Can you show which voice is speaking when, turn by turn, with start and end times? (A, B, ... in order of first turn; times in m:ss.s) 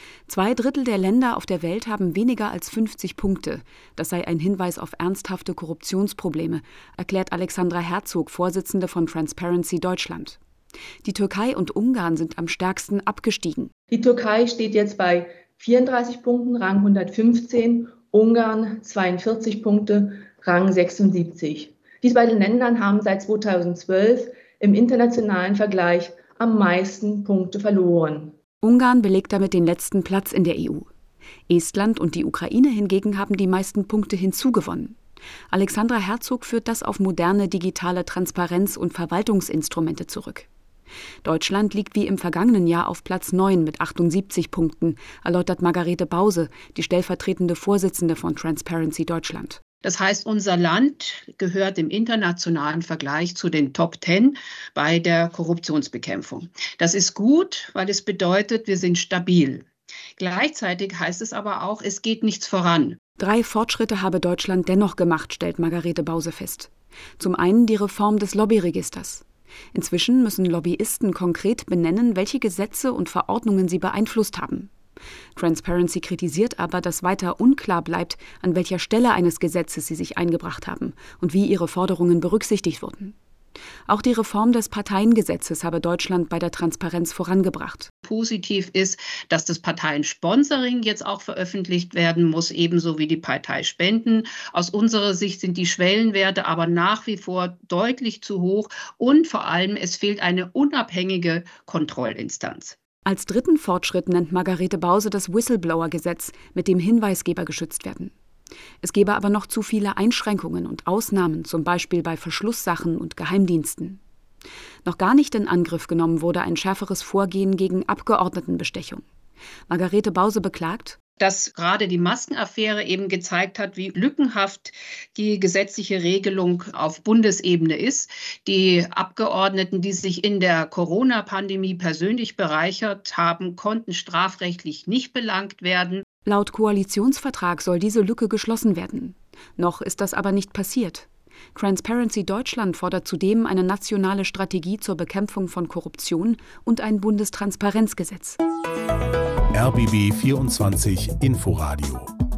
0:00.3-0:10.4 A
0:11.0-0:13.7 A
0:13.9-0:28.3 B
0:28.6-0:30.9 A
0:31.5-0:35.0 A
0:35.5-0:40.5 A
0:41.2-0:49.6 A
0:49.8-1:03.0 C
1:03.2-1:14.7 A
1:15.4-1:23.1 A
1:23.9-1:27.9 A
1:28.0-1:42.8 C
1:43.0-1:48.1 A
1:48.8-1:54.0 A
1:54.8-1:59.0 A
1:59.7-2:01.0 A
2:01.2-2:16.0 C
2:16.2-2:28.4 A
2:29.5-2:32.1 D